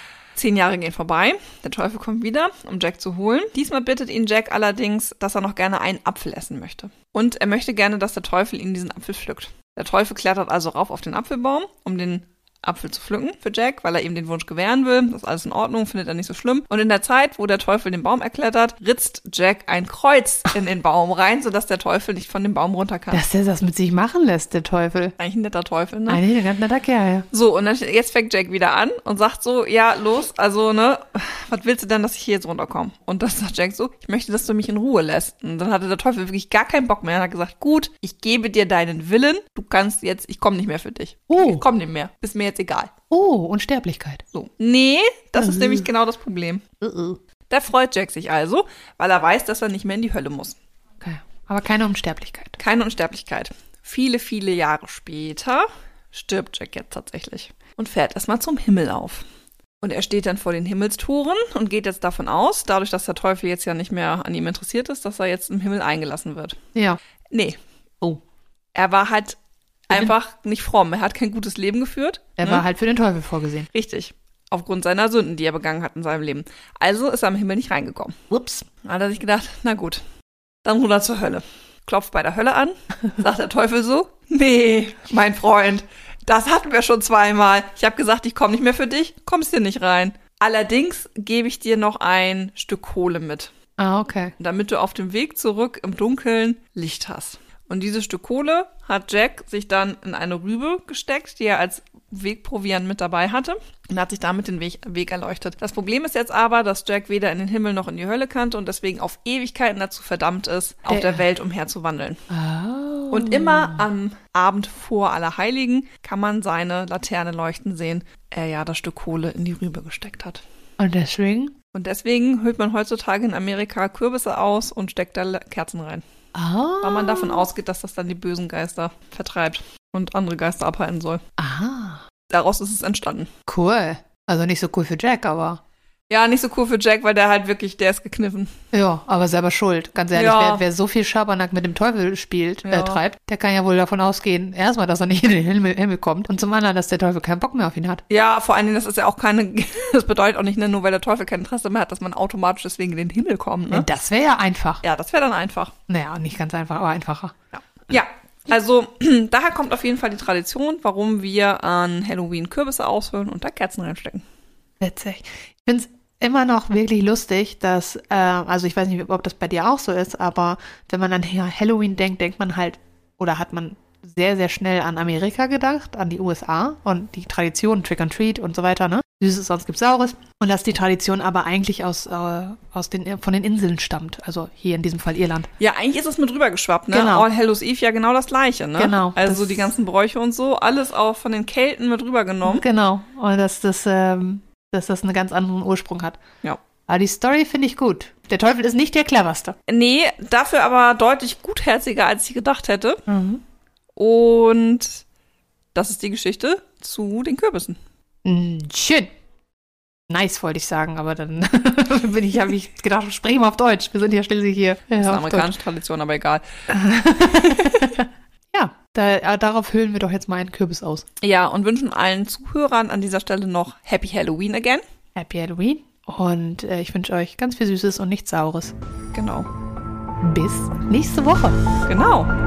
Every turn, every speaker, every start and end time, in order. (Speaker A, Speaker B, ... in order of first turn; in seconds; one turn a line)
Speaker A: 0.3-23.2
Speaker B: 23.1-25.2
Speaker A: 25.2-26.2
Speaker B: 26.1-27.3
Speaker A: 27.3-42.9
Speaker B: 41.3-41.6
Speaker B: 43.1-44.2
Speaker A: 44.3-46.6
Speaker B: 45.4-45.9
Speaker B: 46.8-47.2
Speaker A: 47.5-50.6
Speaker B: 51.0-52.6
Speaker A: 52.6-59.2
Speaker A: 59.8-66.6
Speaker A: 67.3-67.6
Speaker A: 68.8-69.4
Speaker A: 69.9-72.7
Speaker B: 72.4-73.7
Speaker A: 73.7-78.2
Speaker B: 78.3-78.7
Speaker A: 78.8-80.0
Speaker A: 80.6-93.5
Speaker B: 93.8-94.3
Speaker A: 94.4-112.2
Speaker B: 110.9-111.2
Speaker B: 112.3-113.8
Speaker A: 113.1-120.4
Speaker B: 120.8-121.5
Speaker A: 121.7-126.0
Speaker B: 126.3-127.5
Speaker A: 126.8-131.2
Speaker B: 131.4-132.0
Speaker A: 132.3-133.3
Speaker B: 133.5-135.6
Speaker A: 136.1-138.5
Speaker B: 138.7-148.0
Speaker A: 140.2-140.6
Speaker A: 142.7-143.0
Speaker A: 148.1-153.9
Speaker B: 153.7-154.8
Speaker A: 154.8-155.7
Speaker B: 155.9-157.3
Speaker A: 157.5-164.2
Speaker B: 164.8-185.5
Speaker A: 185.6-192.6
Speaker B: 186.9-187.3
Speaker B: 188.8-189.7
Speaker B: 192.4-196.2
Speaker B: 196.9-199.6
Speaker A: 199.7-203.0
Speaker B: 203.1-203.4
Speaker A: 204.0-205.0
Speaker A: 205.8-207.8
Speaker B: 208.2-209.1
Speaker B: 210.1-215.5
Speaker A: 215.0-216.4
Speaker B: 216.7-221.1
Speaker A: 217.4-217.9
Speaker A: 221.2-224.8
Speaker B: 225.2-228.8
Speaker A: 229.1-229.5
Speaker B: 230.2-231.6
Speaker A: 231.9-232.3